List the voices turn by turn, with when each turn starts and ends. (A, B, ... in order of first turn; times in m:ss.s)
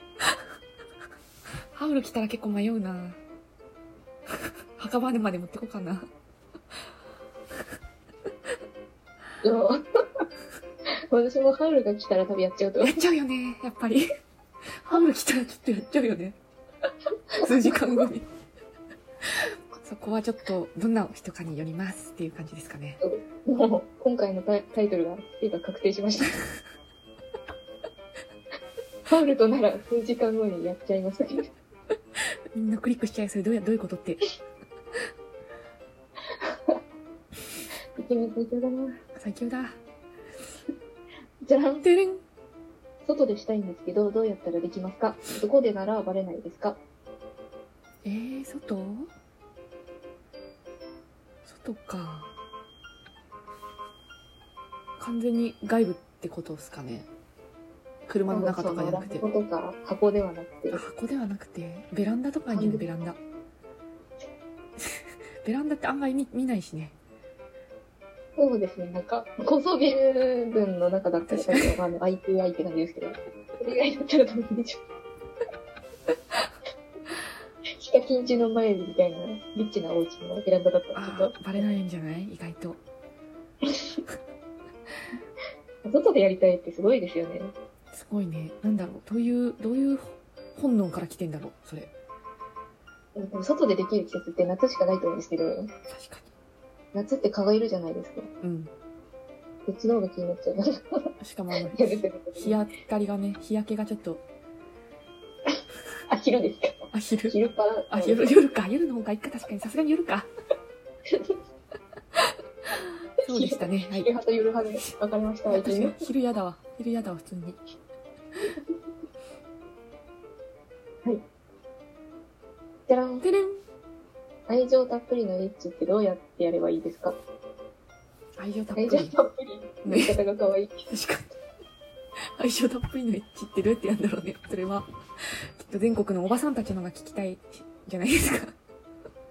0:01.7-0:03.2 A
0:04.8-0:06.1 A
0:09.4-0:10.2 B
0:11.1-0:12.9 B
0:12.8-0:14.1 A
0:14.8-0:16.4 A
0:17.3-0:18.2 A
0:19.8-0:23.0 A
0:23.0-0:26.3 B
0:29.1-0:31.5 B
0:32.5-0:34.2 A
0:38.0-0:39.0 B
0:39.2-0:39.8 A
0:41.4-0:41.8 B
0:41.8-0:42.2 A
0:43.0-0:46.8 B
0:48.0-0:49.1 A
0:51.4-0:52.3 A
0:55.0-0:57.1 A
0:58.1-0:59.2 A
0:58.3-1:00.8 B
1:00.7-1:03.2 A
1:02.5-1:02.9 B
1:04.8-1:07.0 A
1:08.4-1:14.8 B
1:11.3-1:11.7 A
1:17.8-1:21.6 B
1:20.9-1:22.8 A
1:23.7-1:24.0 B
1:25.8-1:27.5 B
1:27.9-1:31.9 A
1:33.1-1:35.7 B
1:35.9-1:36.3 A
1:36.9-1:38.3 B
1:38.4-1:38.7 A
1:39.6-1:41.1 B
1:41.2-1:44.2 A
1:41.7-1:42.6 B
1:46.1-1:48.4 B
1:46.9-1:47.4 A
1:47.9-1:50.3 A
1:53.2-1:54.1 A
1:53.2-1:56.0 B
1:55.5-1:57.6 A
2:02.9-2:03.2 B
2:03.2-2:03.6 A
2:04.5-2:07.2 B
2:08.4-2:09.1 A
2:08.7-2:10.9 B
2:09.8-2:10.2 A
2:10.9-2:11.3 A
2:12.4-2:14.8 A
2:15.6-2:18.5 A